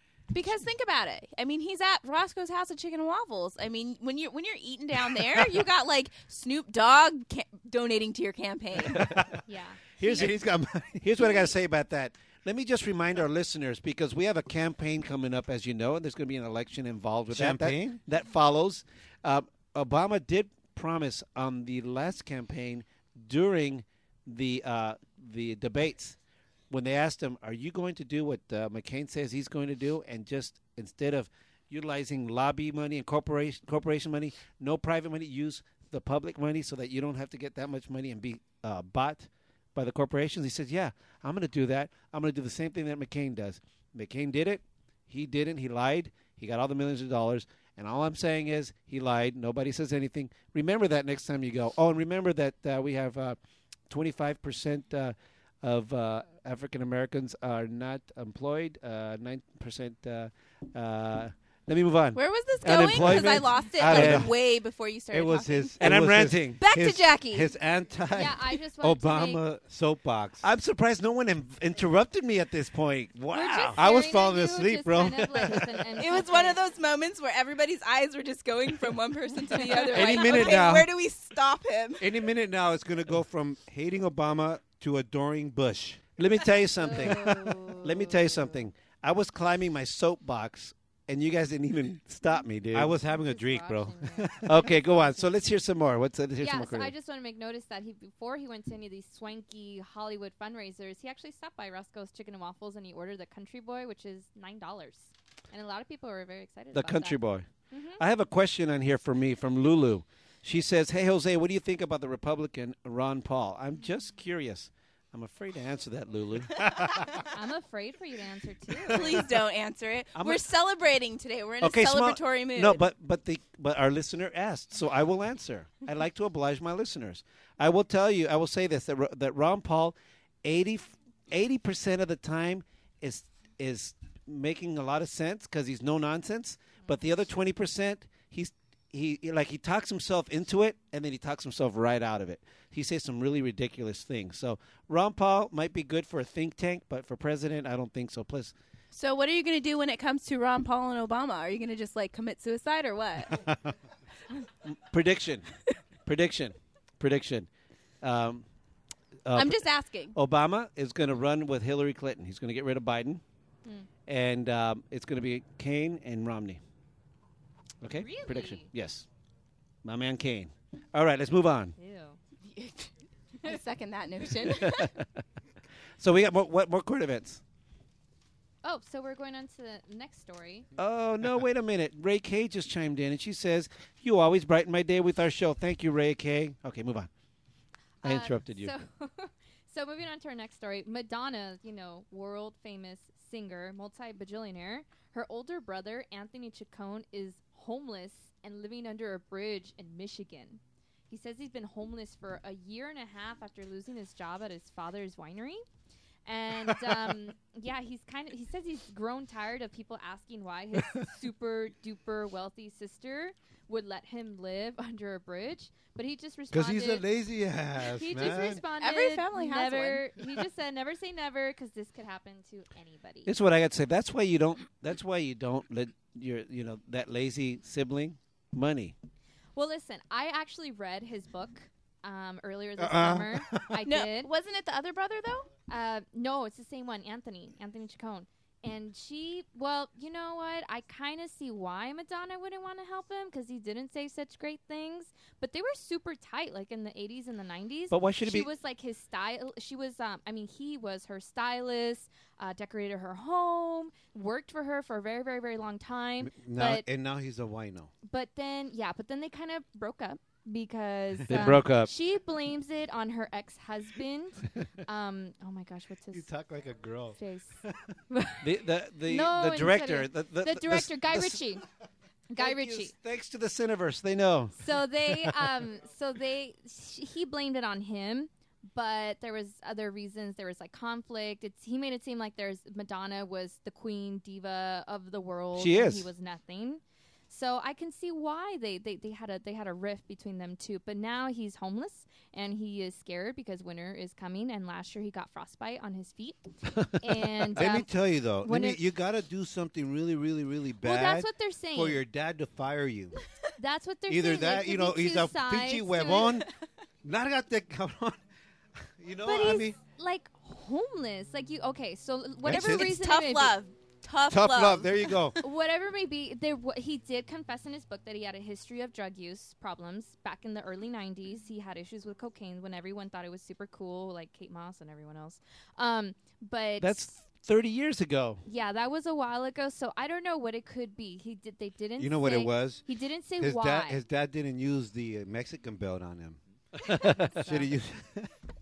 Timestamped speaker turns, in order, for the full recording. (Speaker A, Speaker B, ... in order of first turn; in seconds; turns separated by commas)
Speaker A: 0.3-9.2, Speaker B: 9.5-10.0, Speaker C: 10.0-11.1, Speaker D: 11.0-26.2, Speaker C: 17.3-18.0, Speaker D: 26.7-53.4, Speaker D: 53.9-64.3, Speaker A: 62.1-65.9, Speaker C: 63.1-64.3, Speaker C: 65.1-70.5, Speaker D: 65.8-66.6, Speaker A: 66.6-67.5, Speaker B: 68.1-69.4, Speaker D: 70.4-73.9, Speaker B: 73.3-76.6, Speaker C: 73.7-75.9, Speaker A: 76.0-82.0, Speaker B: 79.5-80.5, Speaker C: 79.9-80.9, Speaker D: 80.0-80.7, Speaker C: 82.0-86.1, Speaker D: 86.2-93.0, Speaker B: 86.8-88.5, Speaker C: 92.7-94.5, Speaker B: 93.0-94.5, Speaker D: 94.4-96.9, Speaker B: 96.4-107.2, Speaker D: 106.7-107.5, Speaker B: 107.7-108.0, Speaker D: 108.0-116.9, Speaker B: 117.3-119.2, Speaker A: 118.9-122.8, Speaker D: 120.2-120.4, Speaker D: 121.6-148.6, Speaker A: 148.9-153.4, Speaker D: 154.7-155.5, Speaker D: 156.1-157.5, Speaker D: 158.0-158.4, Speaker D: 159.3-163.2, Speaker A: 159.3-160.2, Speaker D: 164.1-166.6, Speaker D: 167.8-169.1, Speaker B: 167.9-168.7, Speaker D: 169.8-171.8, Speaker B: 171.8-172.2, Speaker A: 172.4-172.9, Speaker A: 173.4-174.9, Speaker D: 174.6-174.9, Speaker D: 176.0-177.4, Speaker B: 178.6-180.7, Speaker D: 180.8-187.1, Speaker D: 188.0-188.7, Speaker B: 188.0-205.6, Speaker B: 206.3-217.1, Speaker C: 216.5-218.6, Speaker B: 217.8-223.3, Speaker A: 218.7-220.1, Speaker D: 223.3-228.9, Speaker B: 229.6-234.3, Speaker C: 232.8-233.8, Speaker A: 233.8-235.5, Speaker B: 235.7-256.9, Speaker D: 247.9-248.5, Speaker C: 256.2-257.9, Speaker B: 258.1-266.3, Speaker D: 261.3-261.9, Speaker C: 266.1-267.9, Speaker B: 267.1-268.4, Speaker D: 268.4-271.4, Speaker B: 269.1-271.6, Speaker B: 272.3-272.9, Speaker D: 272.4-274.6, Speaker B: 274.6-298.9, Speaker D: 285.6-286.1, Speaker C: 297.6-303.2, Speaker B: 300.8-302.0, Speaker B: 303.6-306.4, Speaker C: 304.1-306.5, Speaker C: 307.0-308.2, Speaker C: 308.9-309.8, Speaker B: 309.2-313.6, Speaker C: 312.4-312.9, Speaker A: 312.5-315.1, Speaker C: 314.3-315.4, Speaker B: 315.4-327.1, Speaker D: 326.8-328.4, Speaker B: 328.4-334.0, Speaker C: 332.0-332.8, Speaker C: 333.4-336.4, Speaker D: 337.0-337.3, Speaker C: 337.1-338.3, Speaker B: 337.4-337.7